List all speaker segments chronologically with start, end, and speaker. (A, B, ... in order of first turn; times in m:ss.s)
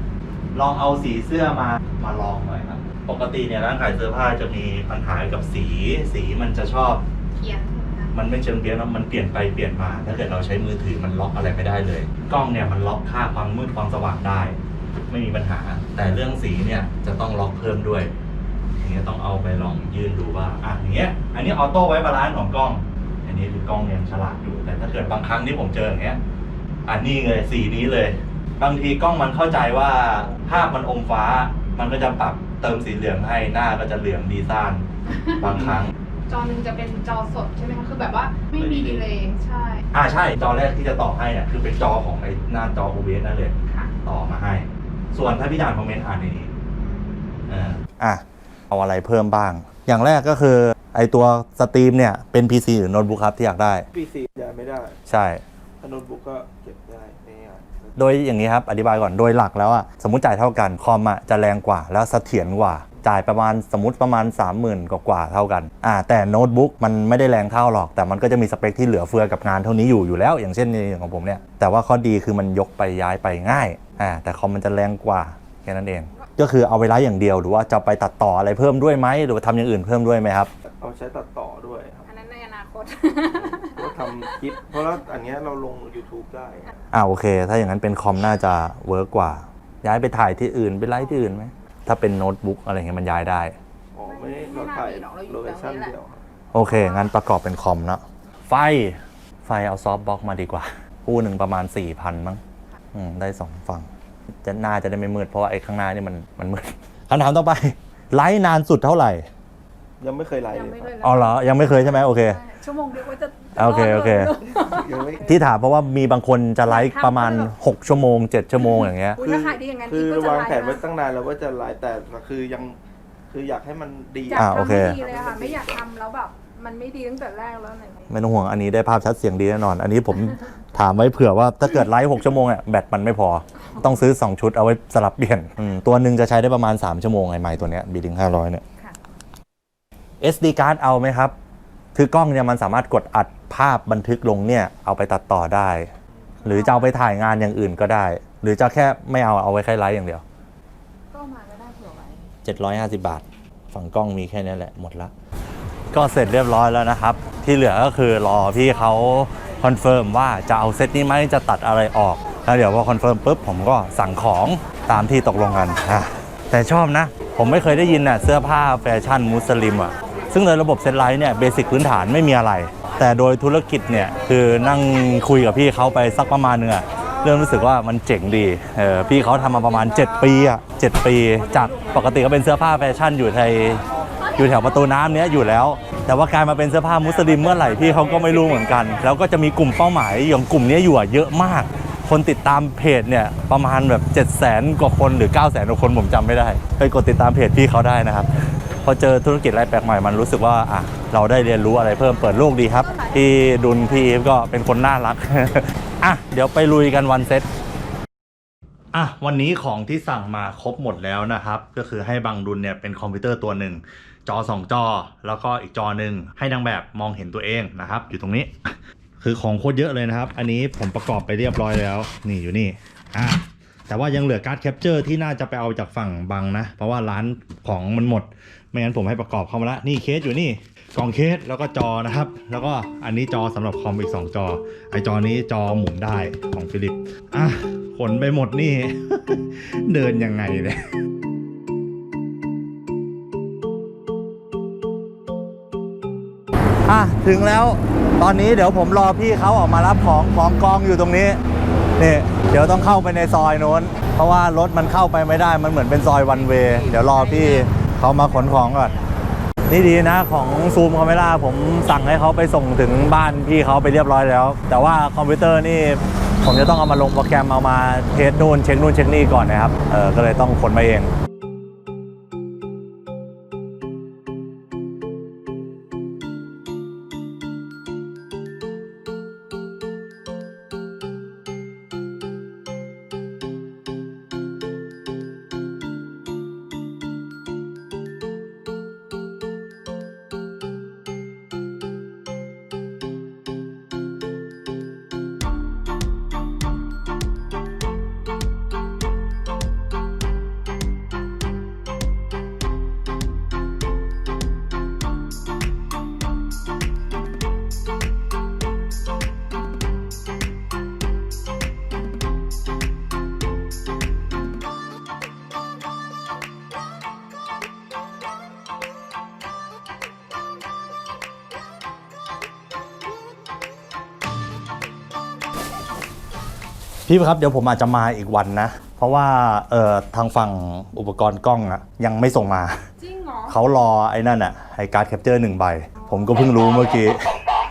0:00.5-0:07.0 A
0:07.4-0:08.1 B
0:08.1-0:14.6 A
0:15.1-0:18.1 A
0:18.8-0:26.2 A
0:26.8-0:34.8 A
0:35.1-0:35.4 B
0:35.4-0:35.9 A
0:36.3-0:39.9 B
0:38.5-0:39.1 C
0:39.9-0:46.5 A
0:46.8-0:47.4 B
0:47.5-0:53.8 A
0:53.9-0:55.0 C
0:55.1-0:55.4 A
0:55.8-0:58.0 C
0:58.0-1:20.5 A
1:20.6-1:22.1 C
1:22.0-1:24.4 B
1:23.2-1:26.7 C
1:26.9-1:33.6 A
1:33.9-1:36.2 C
1:34.0-1:35.9 B
1:36.5-1:42.4 A
1:36.7-1:37.1 B
1:42.9-1:43.9 A
1:44.4-1:49.3 A
1:50.0-1:50.9 C
1:50.5-1:55.0 B
1:51.0-1:52.4 A
1:53.6-1:54.3 A
1:54.5-1:55.4 C
1:55.2-1:59.2 A
1:56.7-1:57.5 B
1:59.2-2:00.8 B
1:59.2-2:02.8 C
2:03.3-2:05.8 C
2:04.3-2:08.1 B
2:04.3-2:05.0 A
2:08.1-2:18.6 A
2:20.2-2:21.3 A
2:21.9-2:25.9 A
2:26.4-2:30.2 A
2:26.4-2:26.9 B
2:31.1-2:32.3 B
2:32.4-2:35.1 A
2:35.9-3:03.8 A
3:04.3-3:18.3 A
3:18.8-3:27.5 A
3:22.6-3:23.8 B
3:28.9-4:00.8 A
4:06.9-4:11.4 A
4:12.0-4:18.9 A
4:19.7-4:31.1 A
5:27.0-5:32.8 A
5:33.0-5:33.6 B
5:33.5-5:37.4 A